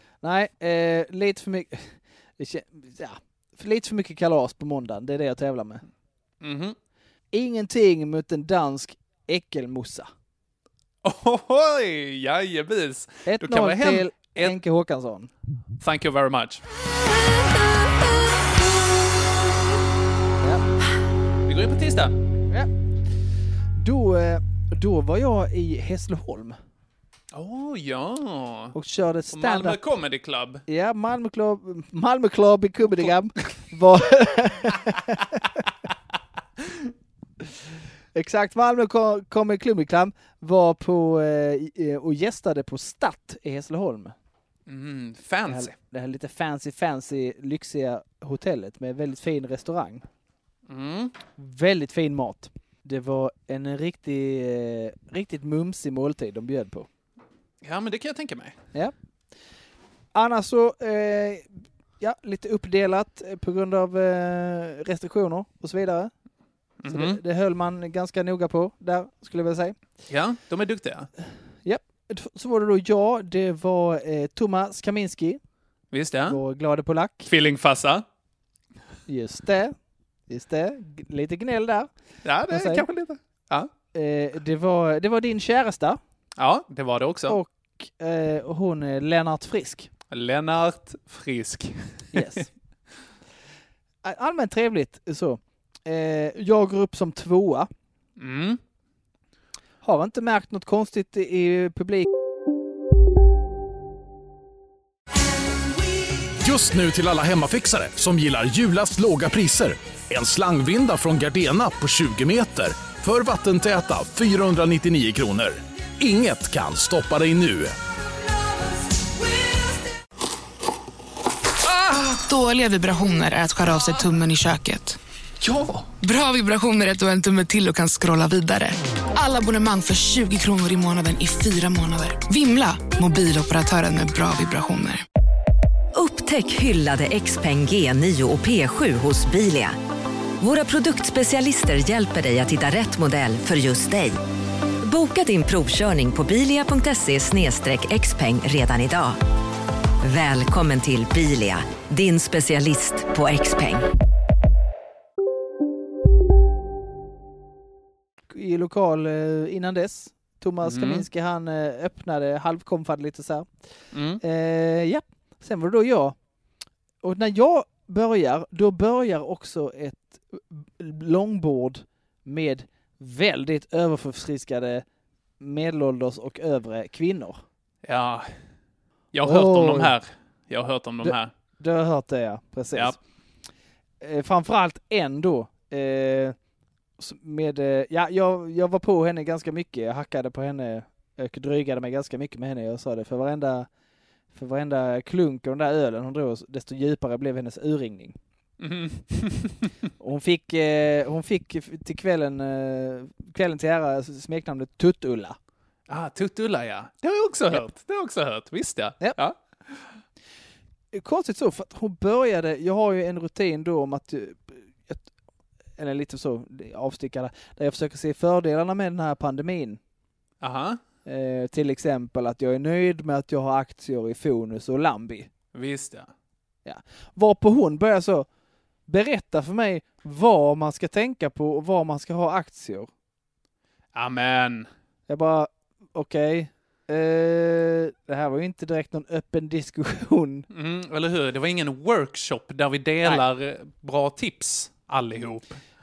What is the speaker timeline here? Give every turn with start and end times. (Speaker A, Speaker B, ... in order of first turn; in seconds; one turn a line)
Speaker A: 0.2-5.8
Speaker B: 6.4-6.8
Speaker A: 7.3-10.1
Speaker B: 11.0-14.6
Speaker A: 13.2-15.3
Speaker B: 15.8-16.6
Speaker B: 21.4-22.1
Speaker A: 23.8-26.6
Speaker B: 27.3-28.7
Speaker A: 28.7-29.8
Speaker B: 29.3-30.6
Speaker A: 30.7-35.5
Speaker B: 36.6-36.9
Speaker A: 38.1-44.1
Speaker B: 44.7-45.7
Speaker A: 45.5-50.0
Speaker B: 50.7-51.1
Speaker A: 51.4-56.9
Speaker B: 57.6-58.5
Speaker A: 60.1-66.1
Speaker B: 66.8-67.2
Speaker A: 66.9-69.8
Speaker B: 70.1-71.1
Speaker A: 71.6-75.4
Speaker B: 75.9-76.4
Speaker A: 76.3-77.3
Speaker B: 77.2-78.0
Speaker A: 79.1-79.7
Speaker A: 80.3-81.9
Speaker B: 82.2-83.7
Speaker A: 82.5-82.8
Speaker A: 83.9-86.0
Speaker B: 86.4-87.4
Speaker A: 87.3-89.9
Speaker B: 90.1-92.4
Speaker A: 92.1-92.5
Speaker A: 94.0-97.7
Speaker B: 98.2-98.6
Speaker A: 99.8-102.1
Speaker C: 106.4-117.7
Speaker D: 121.9-125.0
Speaker D: 126.0-135.0
Speaker E: 135.9-139.8
Speaker E: 140.4-144.2
Speaker E: 144.8-149.2
Speaker E: 150.0-153.9
Speaker A: 158.3-163.5
Speaker B: 160.6-161.1
Speaker B: 163.9-164.2
Speaker A: 164.2-166.2
Speaker A: 167.0-174.8
Speaker A: 175.4-177.4
Speaker B: 177.8-178.3
Speaker B: 179.1-181.3
Speaker A: 179.2-179.9
Speaker A: 181.0-183.0
Speaker A: 184.0-186.3
Speaker A: 187.0-193.7
Speaker A: 194.3-198.2
Speaker B: 198.6-199.7
Speaker A: 200.0-205.3
Speaker B: 205.9-209.4
Speaker A: 210.9-215.0
Speaker A: 215.8-219.8
Speaker B: 220.4-220.8
Speaker A: 221.1-225.3
Speaker B: 225.5-226.1
Speaker A: 226.6-228.3
Speaker A: 228.9-232.9
Speaker B: 233.9-234.7
Speaker A: 235.1-240.5
Speaker B: 240.5-245.6